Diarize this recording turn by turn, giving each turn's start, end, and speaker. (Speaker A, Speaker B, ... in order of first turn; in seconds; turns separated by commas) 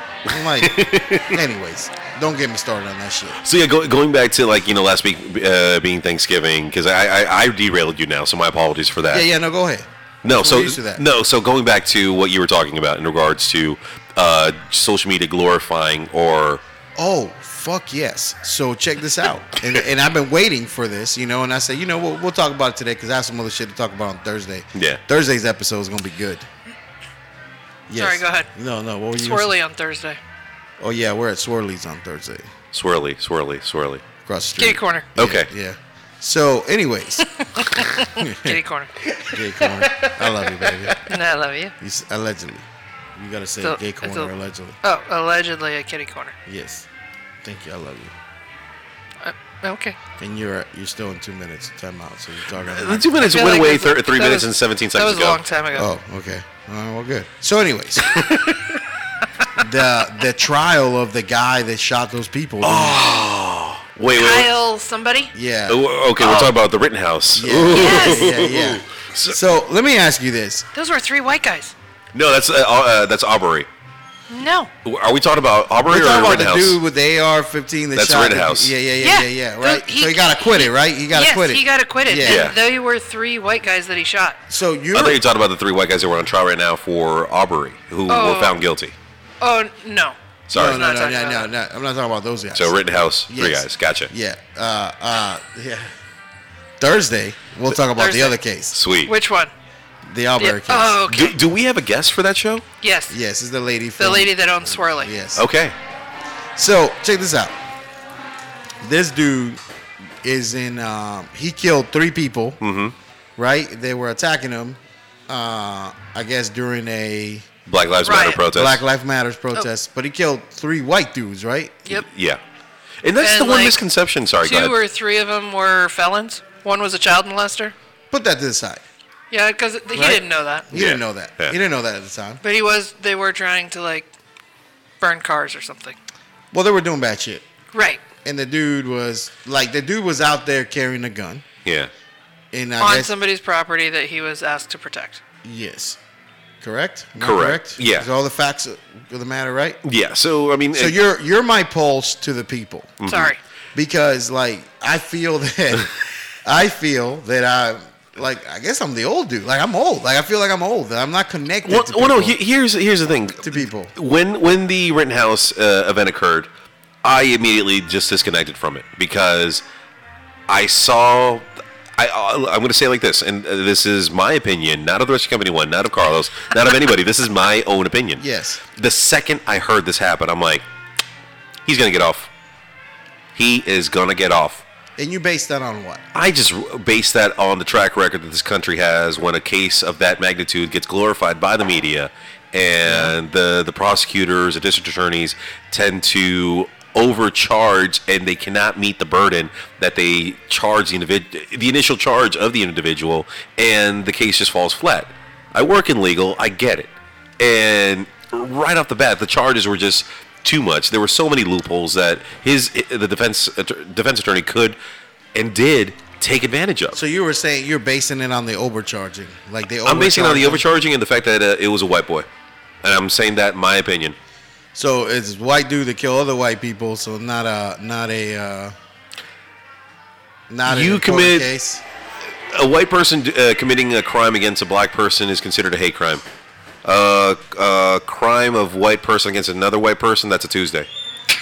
Speaker A: 0.3-3.4, Speaker B: 0.3-1.4, Speaker B: 3.4-9.3, Speaker A: 9.1-11.0, Speaker B: 10.2-16.6, Speaker A: 17.0-26.5, Speaker B: 24.7-25.0, Speaker A: 27.9-29.5, Speaker C: 28.0-28.5, Speaker C: 29.2-30.2, Speaker A: 30.8-32.5, Speaker B: 32.7-34.0, Speaker A: 34.3-37.3, Speaker C: 34.6-35.1, Speaker B: 35.2-35.5, Speaker C: 37.4-39.0, Speaker A: 38.1-38.6, Speaker B: 39.1-41.0, Speaker A: 39.3-41.1, Speaker C: 41.1-41.7, Speaker A: 41.8-44.8, Speaker C: 43.6-44.3, Speaker C: 44.8-46.4, Speaker A: 46.5-46.9, Speaker A: 47.4-48.1, Speaker C: 49.2-50.0, Speaker A: 50.2-53.4, Speaker B: 52.6-55.4, Speaker C: 53.3-55.9, Speaker A: 55.7-58.2, Speaker B: 58.0-58.8, Speaker A: 59.5-63.2, Speaker B: 62.6-64.5, Speaker C: 64.2-65.3, Speaker A: 65.3-66.5, Speaker B: 65.7-69.4, Speaker A: 67.3-70.7, Speaker C: 67.7-68.4, Speaker C: 70.7-71.7, Speaker B: 72.1-73.7, Speaker C: 74.3-74.7, Speaker B: 74.8-76.8, Speaker A: 75.9-82.4, Speaker B: 78.0-78.7, Speaker C: 79.0-84.4, Speaker B: 82.2-82.6, Speaker A: 84.5-85.2, Speaker B: 84.9-89.0, Speaker C: 88.1-88.6, Speaker C: 89.4-91.5, Speaker B: 90.5-90.9, Speaker A: 90.5-95.9, Speaker B: 92.5-94.1, Speaker A: 96.8-98.8, Speaker C: 97.9-98.4, Speaker B: 98.7-99.1, Speaker C: 99.1-99.5, Speaker A: 100.1-101.0, Speaker C: 100.4-101.4, Speaker B: 101.1-102.7, Speaker C: 102.8-103.2, Speaker A: 103.1-105.5, Speaker C: 104.0-105.1, Speaker B: 105.4-105.8, Speaker A: 106.6-107.5, Speaker A: 108.8-109.6, Speaker A: 110.2-112.6, Speaker B: 112.6-113.0, Speaker A: 113.4-117.5, Speaker B: 117.7-118.8, Speaker C: 118.0-118.4, Speaker A: 118.5-121.9, Speaker B: 121.9-122.4, Speaker B: 123.0-124.8, Speaker C: 123.2-123.8, Speaker C: 124.4-127.8, Speaker A: 128.1-128.8, Speaker C: 129.3-130.7, Speaker A: 129.9-132.4, Speaker B: 130.7-131.6, Speaker C: 132.4-134.1, Speaker C: 135.0-136.0, Speaker A: 136.5-137.5, Speaker C: 137.7-138.0, Speaker A: 138.2-141.4, Speaker B: 141.7-141.9, Speaker A: 142.5-143.1, Speaker C: 142.8-145.2, Speaker A: 145.4-146.0, Speaker A: 146.6-149.8, Speaker B: 147.2-148.1, Speaker B: 149.8-151.0, Speaker A: 150.8-152.9, Speaker B: 153.0-153.3, Speaker C: 153.1-153.4, Speaker A: 153.8-162.4, Speaker B: 161.7-166.5, Speaker A: 163.4-163.9, Speaker B: 167.0-169.6, Speaker B: 170.5-180.6, Speaker A: 178.2-178.6, Speaker B: 181.7-182.3, Speaker B: 183.3-184.7, Speaker A: 185.0-186.0, Speaker B: 186.1-214.8, Speaker A: 192.8-193.1, Speaker B: 215.3-217.0, Speaker A: 216.9-220.7, Speaker B: 219.8-222.3, Speaker B: 222.8-224.2, Speaker A: 224.8-228.8, Speaker A: 230.5-231.8, Speaker B: 230.7-231.5, Speaker B: 232.5-236.2, Speaker B: 236.8-240.9